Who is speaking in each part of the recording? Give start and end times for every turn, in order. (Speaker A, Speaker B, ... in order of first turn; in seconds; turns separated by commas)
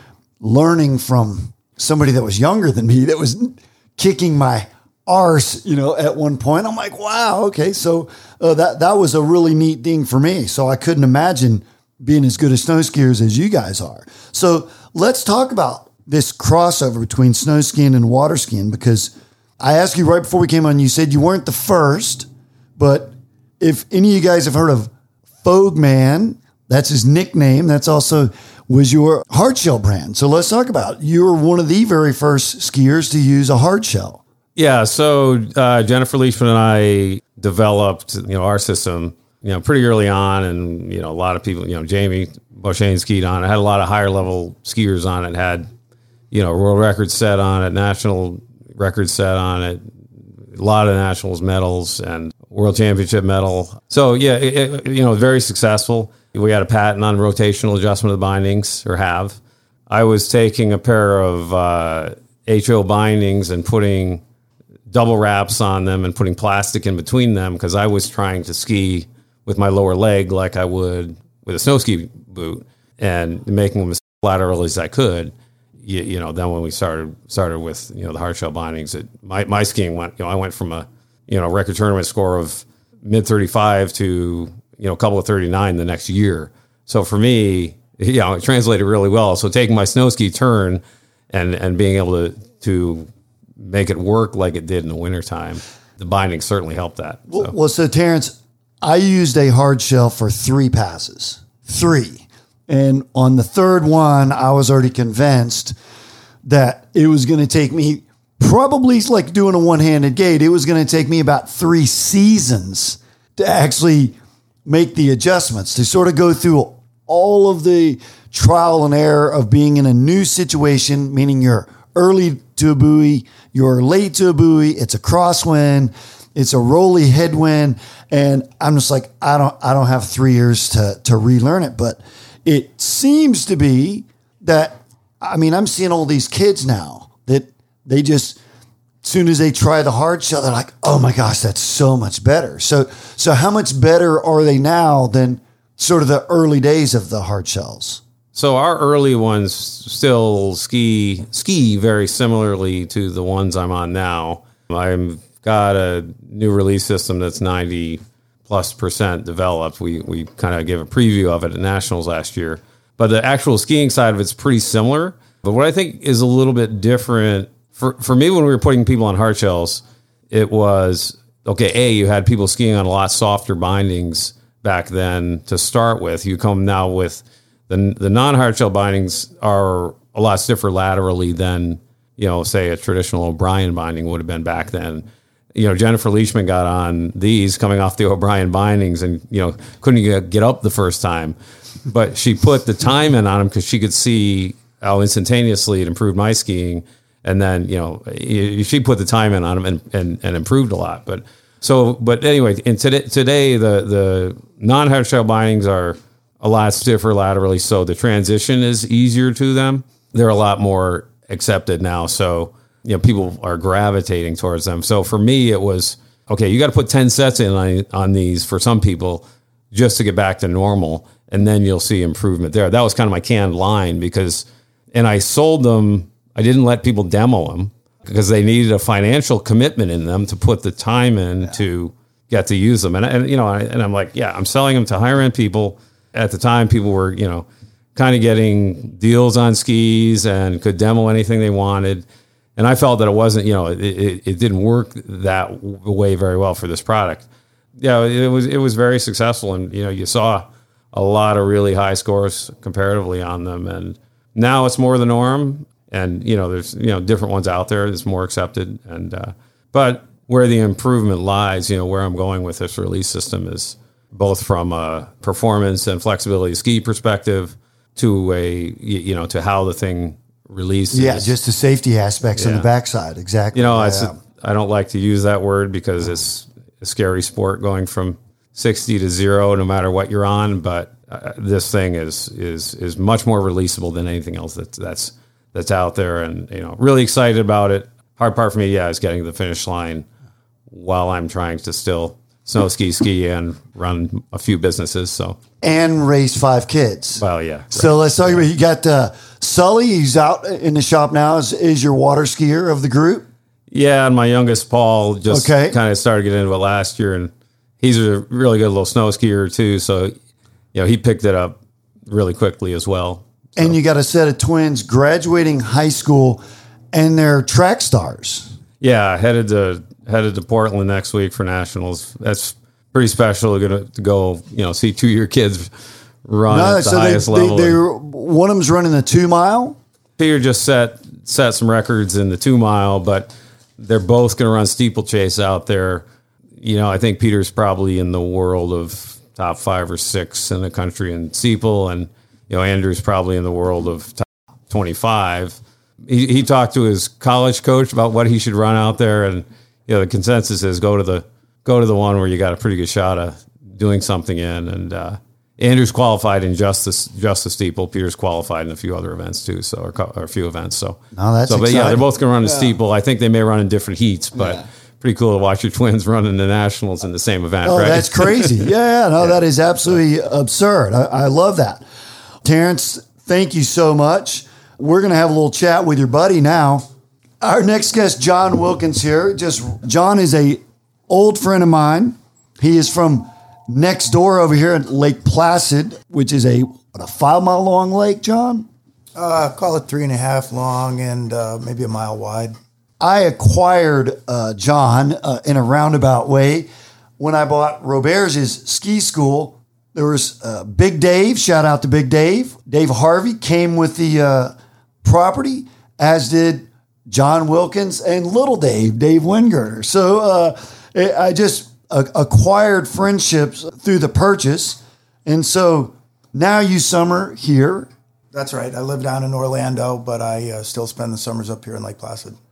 Speaker A: 0.4-22.3, Speaker A: 22.8-24.9, Speaker A: 25.4-34.2, Speaker B: 34.5-45.7, Speaker B: 46.3-49.9, Speaker B: 50.5-64.2, Speaker B: 64.9-97.5, Speaker A: 97.3-105.8, Speaker A: 106.5-114.2, Speaker A: 114.7-138.4, Speaker A: 139.0-148.0, Speaker B: 148.3-191.3, Speaker B: 191.9-247.3, Speaker B: 247.8-271.3, Speaker A: 270.9-274.2, Speaker B: 272.4-272.7, Speaker B: 273.5-290.1, Speaker B: 290.7-295.4, Speaker A: 295.6-303.3, Speaker B: 297.2-298.4, Speaker B: 303.7-310.1, Speaker A: 305.3-305.8, Speaker B: 310.7-313.8, Speaker A: 313.6-316.4, Speaker A: 316.9-318.5, Speaker B: 318.8-325.7, Speaker B: 326.2-327.8, Speaker A: 326.5-329.8, Speaker B: 330.2-336.1, Speaker B: 336.6-368.7, Speaker A: 361.1-362.1, Speaker A: 367.6-371.8, Speaker A: 372.4-376.9, Speaker A: 377.4-388.7, Speaker C: 389.1-392.5, Speaker A: 393.0-396.7, Speaker A: 397.2-417.9, Speaker C: 418.3-422.4